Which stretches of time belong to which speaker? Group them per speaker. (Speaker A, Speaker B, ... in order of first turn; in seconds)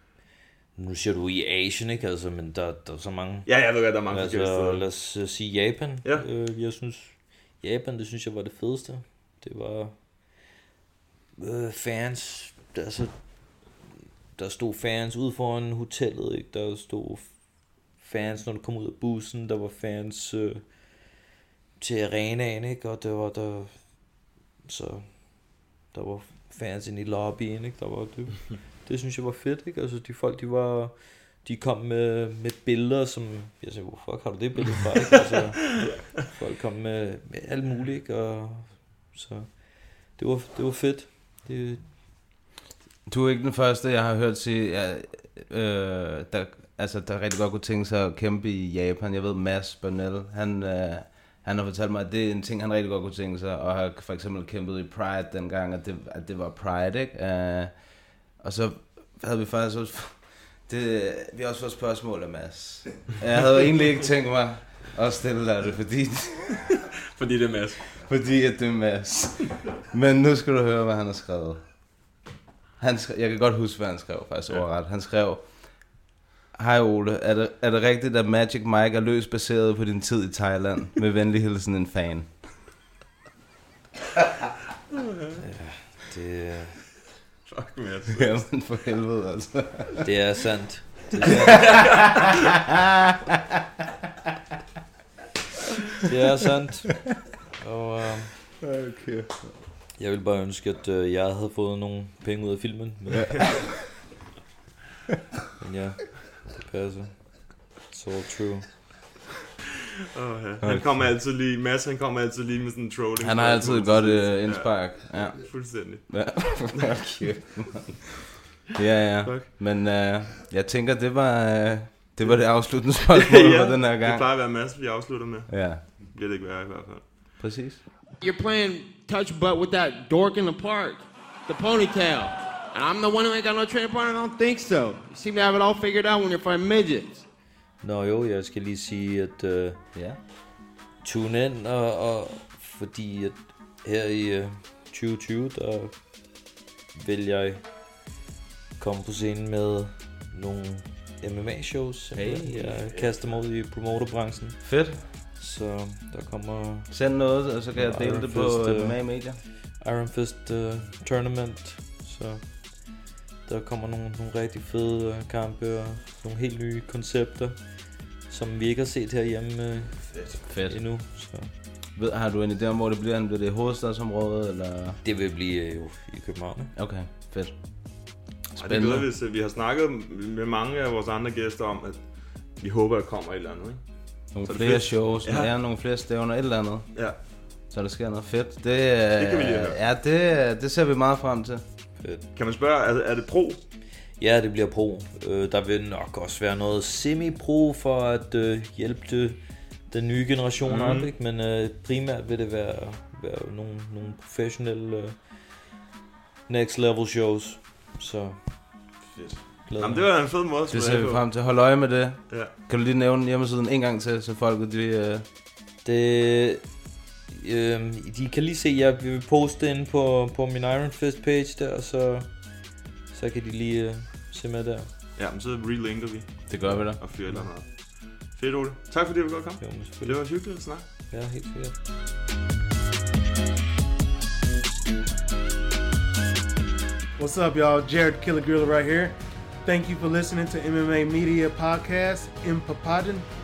Speaker A: 0.8-10.4, 11.4-13.7, 14.4-21.0, 21.8-42.0, 85.4-86.8, 90.0-92.0, 96.1-98.5, 100.0-103.5, 105.6-108.8, 137.8-139.9, 141.0-147.9, 148.8-171.5, 175.0-176.7, 194.1-205.7, 206.5-208.9, 209.7-210.1, 215.8-224.9, 226.7-227.5, 229.6-231.8
Speaker B: 3.5-4.9, 67.2-68.0, 87.4-88.5, 91.6-92.3, 110.2-117.0, 122.3-127.1, 178.6-185.5, 189.2-189.8, 192.3-193.6, 200.7-201.1, 209.1-211.5, 225.2-230.9
Speaker C: 43.1-66.8, 68.1-72.1, 72.8-82.5, 88.2-90.0, 98.7-99.4, 110.6-111.0, 113.2-124.3, 125.5-125.8, 127.4-127.8, 139.9-140.2, 152.1-153.0, 154.6-155.0, 156.9-159.4, 170.5-175.0, 176.8-179.1, 184.3-191.6, 210.7-215.3, 226.5-227.4
Speaker D: 128.2-137.3
Speaker E: 237.2-243.3